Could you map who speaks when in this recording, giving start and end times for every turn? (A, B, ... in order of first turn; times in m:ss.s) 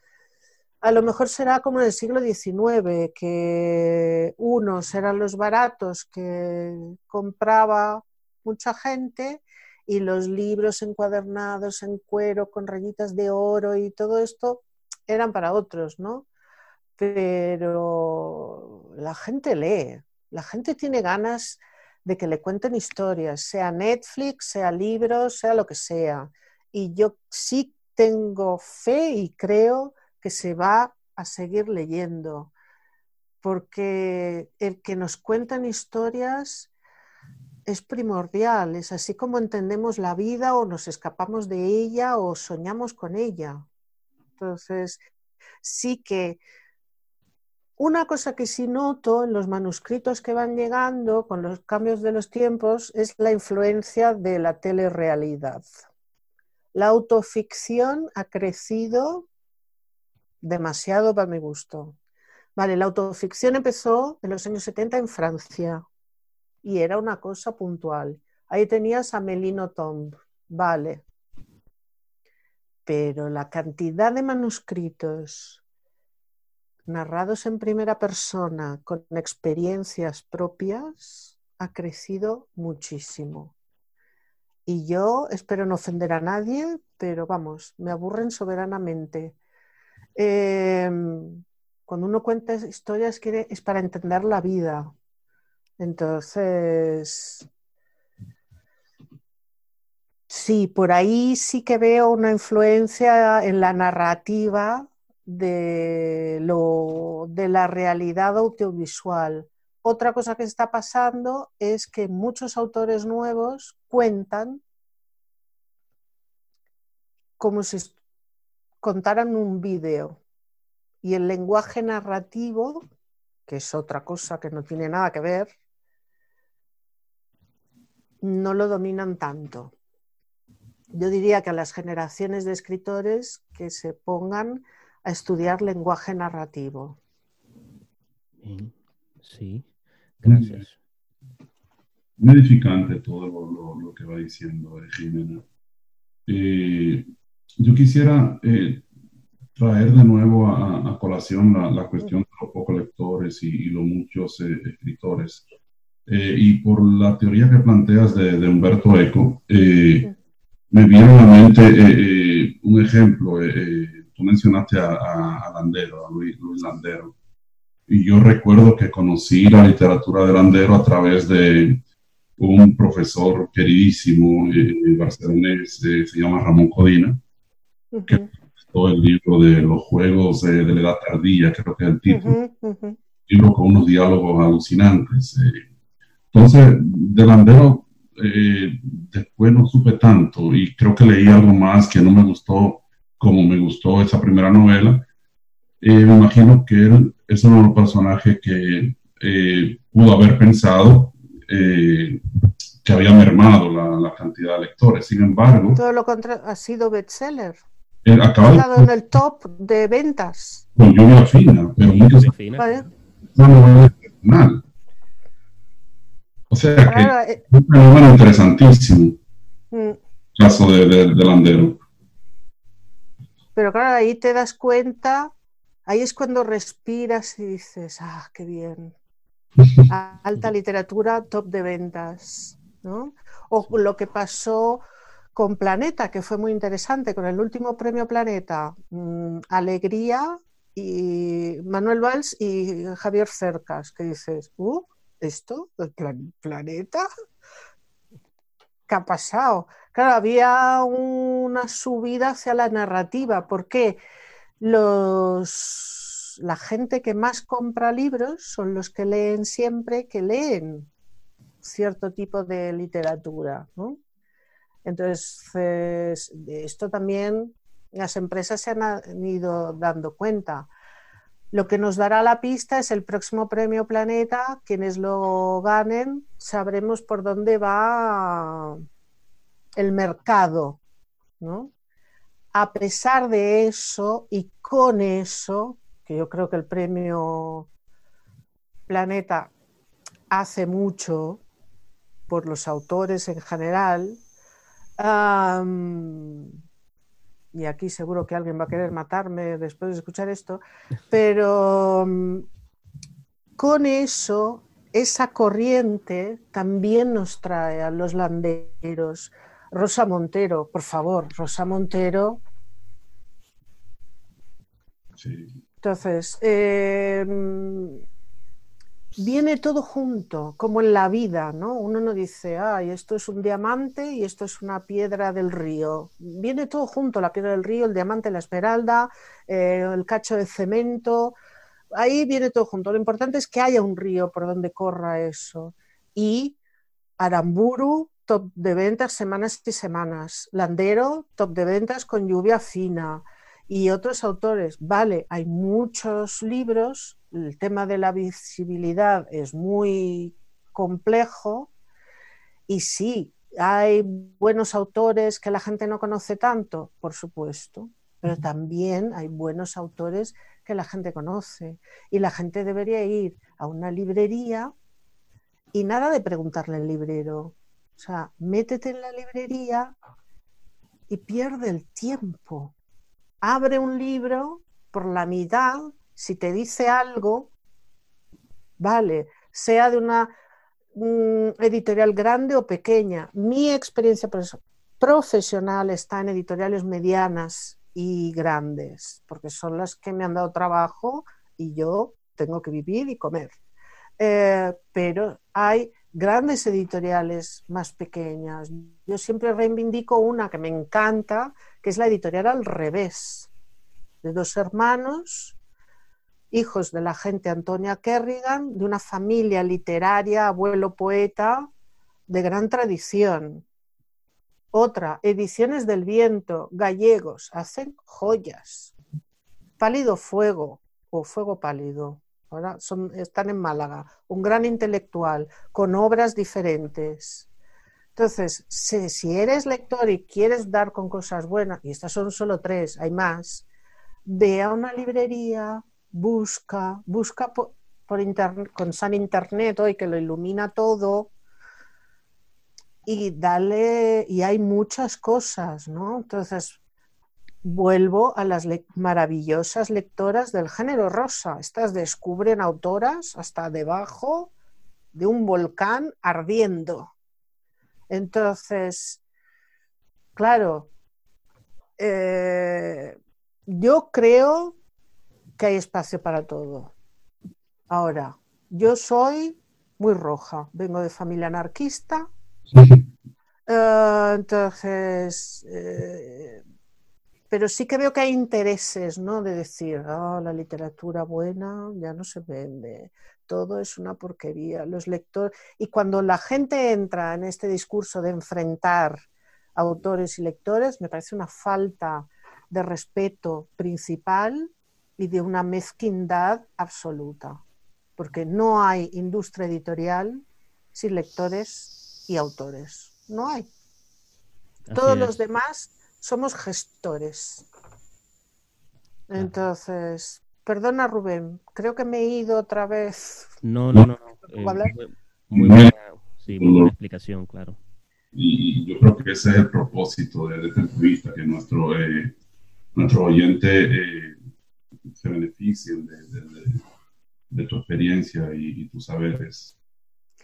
0:00.8-0:16.3 A
0:17.0-0:32.5 A
0:33.4-0:36.7 A
0:37.7-0:43.7 A
0:44.4-0:45.0 A
0:45.6-0:46.4 A
0:47.8-0:55.7 A
0:56.7-0:59.3 A
1:00.4-1:02.0 A
1:02.6-1:05.8 A
1:06.6-1:11.0 A
1:12.9-1:15.6 A
1:16.9-1:23.5 A
1:24.7-1:29.4 A
1:30.2-1:34.9 A
1:35.8-1:37.5 A
1:40.3-1:54.6 A
1:57.4-1:58.0 A
1:58.8-2:00.2 A
2:01.0-2:02.9 A
2:03.5-2:05.5 A
2:08.2-2:09.8 A
2:10.9-2:17.0 A
2:18.4-2:20.8 B
2:20.2-2:20.6 C
2:22.2-2:25.4 C
2:26.3-2:27.1 C
2:27.6-2:28.9 C
2:29.6-2:35.4 C
2:36.1-2:40.1 C
2:40.7-2:47.1 C
2:47.9-2:51.8 C
2:52.4-2:57.2 C
2:57.9-2:58.3 A
2:58.1-3:02.4 C
3:02.1-3:03.0 A
3:03.3-3:05.7 C
3:06.3-3:15.1 C
3:15.8-3:22.2 C
3:22.8-3:25.8 C
3:25.8-3:27.6 A
3:28.0-3:28.9 C
3:28.4-3:30.6 A
3:30.8-3:32.3 C
3:32.2-3:32.7 B
3:32.6-3:32.9 A
3:33.3-3:34.6 C
3:36.5-3:39.2 C
3:36.8-3:37.4 A
3:39.7-3:40.0 A
3:40.4-3:41.8 C
3:43.6-3:45.3 A
3:45.9-3:48.9 A
3:49.9-3:54.8 A
3:55.4-4:07.1 A
4:08.9-4:14.0 A
4:14.6-4:20.9 A
4:21.6-4:24.0 A
4:24.8-4:30.7 A
4:31.5-4:38.8 A
4:39.8-4:40.8 A
4:41.4-4:41.7 A
4:42.5-4:47.7 A
4:48.9-4:49.5 A
4:50.3-4:51.4 A
4:52.3-4:54.2 A
4:55.0-4:56.6 A
4:57.5-5:02.5 A
5:03.6-5:12.4 A
5:15.2-5:15.6 C
5:15.8-5:18.0 A
5:19.2-5:31.4 A
5:31.9-5:36.6 A
5:37.2-5:51.7 A
5:52.7-6:04.7 A
6:05.7-6:09.9 A
6:11.1-6:12.7 A
6:13.4-6:17.5 A
6:18.8-6:20.3 A
6:21.0-6:33.6 A
6:34.2-6:43.5 A
6:44.2-6:45.6 A
6:46.5-6:51.7 A
6:52.3-6:53.7 A
6:54.7-6:58.9 A
6:59.8-7:07.5 A
7:08.2-7:13.7 A
7:14.3-7:21.3 A
7:23.0-7:26.8 A
7:27.6-7:34.5 A
7:35.1-7:37.1 A
7:38.1-7:39.2 A
7:40.4-7:40.9 A
7:42.0-7:44.8 A
7:45.6-7:46.9 A
7:47.9-7:52.3 A
7:52.7-7:53.0 C
7:53.7-7:56.6 A
7:57.5-8:17.6 A
8:18.2-8:23.7 A
8:24.9-8:25.4 B
8:24.9-8:27.6 A
8:29.3-8:33.6 A
8:33.6-8:37.8 B
8:34.5-8:35.0 A
8:35.5-8:35.9 C
8:36.6-8:36.9 C
8:38.3-8:42.4 C
8:43.0-8:44.4 C
8:45.2-8:46.8 C
8:47.5-8:49.8 C